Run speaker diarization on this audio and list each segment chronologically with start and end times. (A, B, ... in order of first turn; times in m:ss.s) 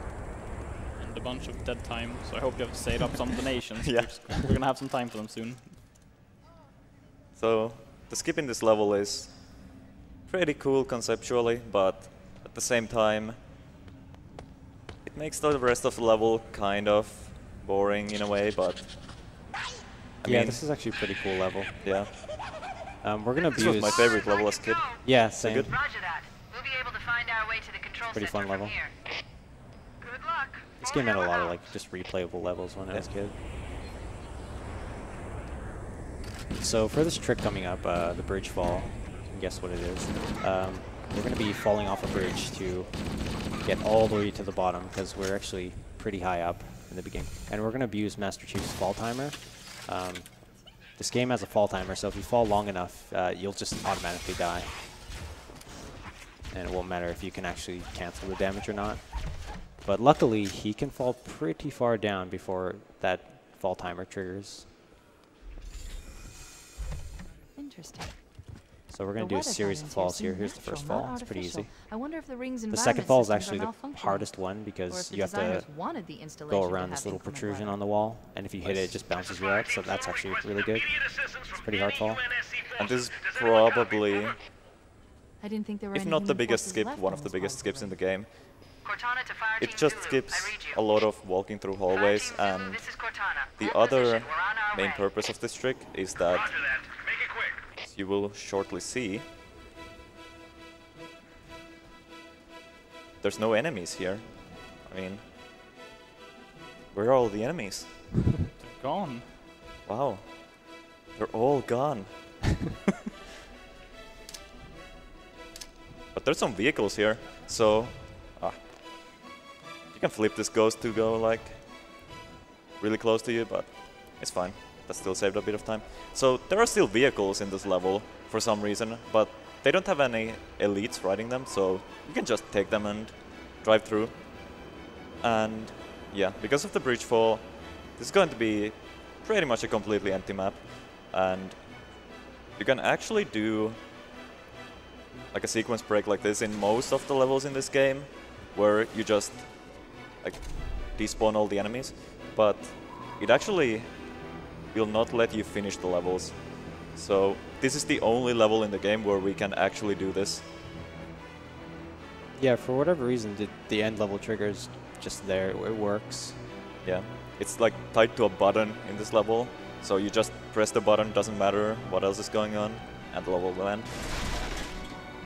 0:01.0-0:05.8 A
0:03.8-0:04.3 B
0:07.3-0:09.6 B
0:10.3-0:13.4 B
0:15.0-0:18.9 B
0:20.2-0:20.6 B
0:20.2-0:21.7 C
0:21.8-0:22.2 B
0:23.0-0:24.3 C
0:23.5-0:25.7 B
0:25.0-0:25.7 C
0:25.7-0:28.9 D
0:28.1-0:28.8 C
0:30.8-0:33.4 C
0:36.6-0:55.1 C
0:56.5-1:04.7 C
1:07.6-1:08.4 E
1:08.9-1:11.7 C
1:09.2-1:17.8 E
1:12.7-1:15.7 C
1:16.5-1:22.2 C
1:22.8-1:24.4 B
1:25.4-1:28.0 E
1:25.9-1:28.5 B
1:28.9-1:30.7 D
1:29.6-1:36.6 B
1:32.0-1:34.9 D
1:37.8-1:39.2 B
1:43.2-1:45.2 B
1:46.9-1:48.2 B
1:48.6-1:49.4 A
1:49.8-1:52.5 B
1:56.1-1:59.1 B
1:59.9-2:01.9 B
2:02.8-2:14.6 B
2:15.2-2:21.9 B
2:22.6-2:23.8 B
2:25.3-2:34.2 B
2:34.7-2:40.4 B
2:42.4-2:46.5 C
2:46.8-2:54.0 B